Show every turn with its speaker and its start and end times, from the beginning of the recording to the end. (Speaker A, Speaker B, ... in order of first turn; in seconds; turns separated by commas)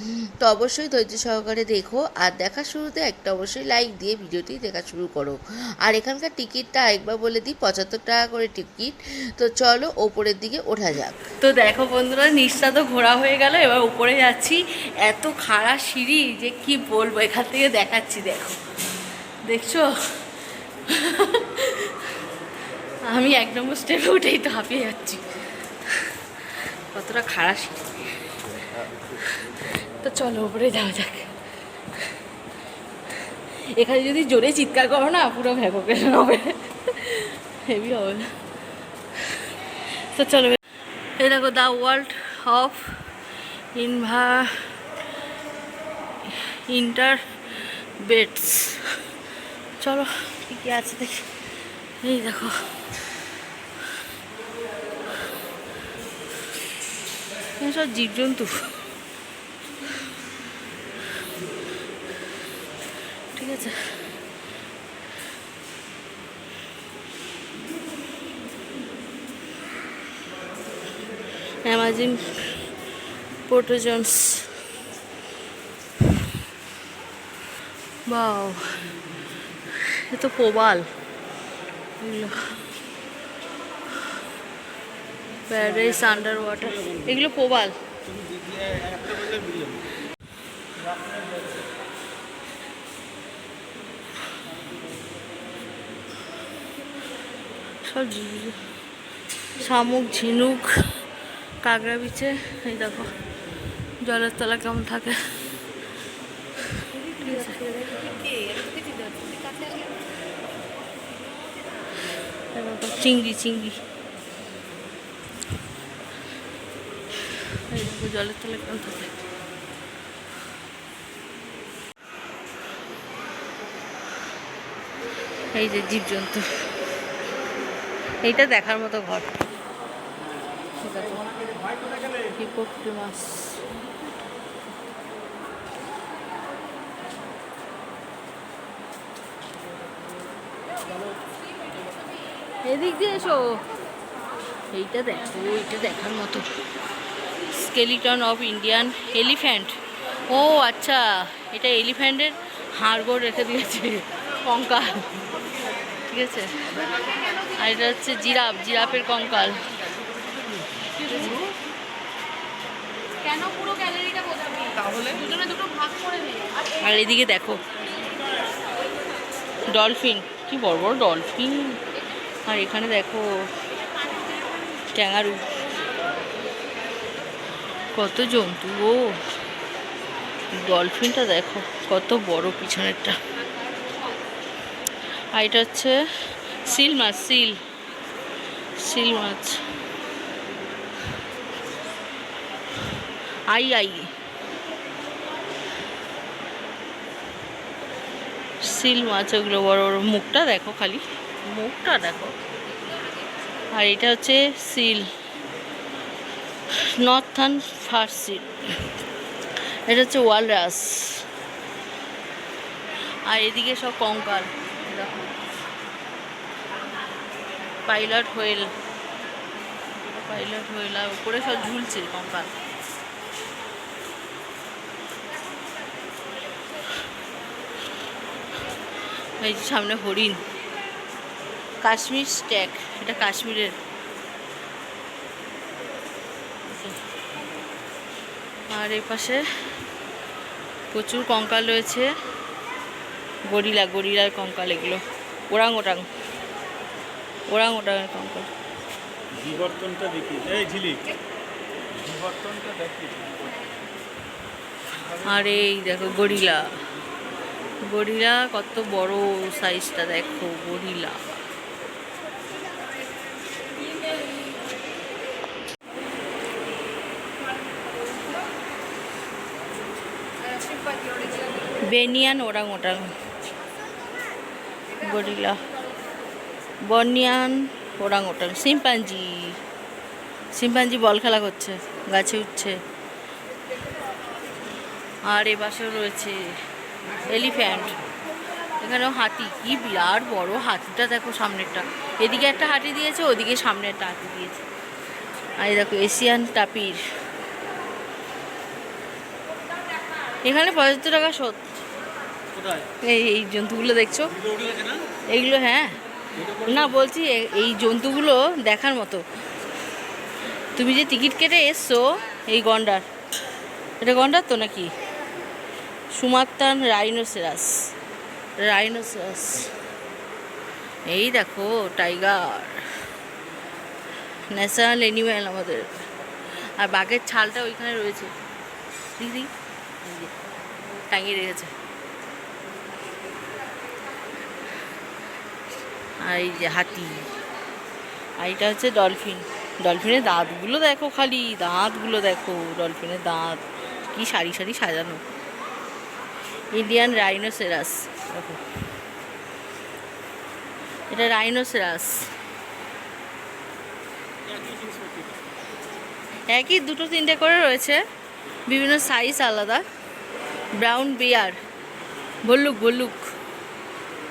Speaker A: 0.4-11.2, Speaker B: 11.4-18.6, Speaker B: 19.5-20.2, Speaker B: 20.9-22.2, Speaker B: 23.0-28.4, Speaker B: 29.1-31.3, Speaker B: 31.9-32.2, Speaker B: 33.2-38.4, Speaker B: 39.1-40.6, Speaker B: 41.2-43.1, Speaker B: 43.7-44.8, Speaker B: 46.2-49.0, Speaker B: 49.8-51.3, Speaker B: 52.0-52.6, Speaker B: 57.6-58.7, Speaker B: 63.3-63.9, Speaker B: 71.6-72.6, Speaker B: 73.5-74.6, Speaker B: 78.0-79.0, Speaker B: 79.7-80.8, Speaker B: 82.0-82.6, Speaker B: 85.5-87.8, Speaker C: 85.7-87.2, Speaker C: 88.0-89.9, Speaker C: 90.8-91.6, Speaker B: 97.8-98.6, Speaker B: 99.6-101.0, Speaker B: 101.6-103.1, Speaker B: 104.0-105.4, Speaker B: 106.8-107.8, Speaker B: 112.5-113.8, Speaker B: 117.5-119.2, Speaker B: 125.5-126.7, Speaker B: 128.2-129.3, Speaker B: 130.8-131.3, Speaker B: 132.3-133.6, Speaker B: 142.6-143.6, Speaker B: 144.7-146.5, Speaker B: 147.5-149.8, Speaker B: 150.3-155.1, Speaker B: 156.1-156.8, Speaker B: 157.5-159.7, Speaker B: 161.0-161.5, Speaker D: 163.4-166.5, Speaker B: 166.7-167.6, Speaker B: 169.7-171.8, Speaker B: 172.4-173.5, Speaker B: 174.9-175.7, Speaker B: 177.9-179.2, Speaker B: 180.5-183.2, Speaker B: 185.3-186.0, Speaker B: 186.6-187.6, Speaker B: 188.8-189.6, Speaker B: 193.5-194.1, Speaker B: 198.6-202.3, Speaker B: 203.7-205.1, Speaker B: 206.8-208.9, Speaker B: 209.9-211.3, Speaker B: 213.3-215.1, Speaker B: 217.8-218.7, Speaker B: 219.9-222.5, Speaker B: 229.4-230.4, Speaker B: 231.8-233.8, Speaker B: 236.7-237.0, Speaker B: 238.7-239.4, Speaker B: 240.9-242.1, Speaker B: 243.5-246.1, Speaker B: 247.5-248.5, Speaker C: 249.3-251.0, Speaker C: 251.9-253.7, Speaker B: 255.2-256.8, Speaker B: 257.9-261.3, Speaker B: 271.8-273.1, Speaker B: 274.9-275.6, Speaker B: 276.8-279.6, Speaker B: 280.5-282.8, Speaker B: 285.3-286.4, Speaker B: 287.2-287.9, Speaker B: 288.8-294.6, Speaker B: 295.6-297.0, Speaker B: 300.4-301.8, Speaker C: 302.5-302.9, Speaker B: 303.0-304.4, Speaker C: 304.4-305.0, Speaker B: 305.3-305.9, Speaker C: 306.4-306.9, Speaker B: 306.6-309.2, Speaker B: 310.8-313.0, Speaker B: 314.0-314.9, Speaker B: 316.1-317.9, Speaker B: 318.6-319.7, Speaker B: 321.1-323.1, Speaker B: 324.5-326.1, Speaker B: 326.6-328.3, Speaker B: 329.2-329.5, Speaker B: 330.0-330.3, Speaker B: 331.1-331.7, Speaker B: 336.2-337.3, Speaker B: 338.4-345.2, Speaker B: 346.7-348.6, Speaker B: 351.1-352.3, Speaker C: 354.4-355.4, Speaker B: 356.5-358.0, Speaker B: 358.7-359.9, Speaker B: 360.8-361.6, Speaker B: 362.4-363.2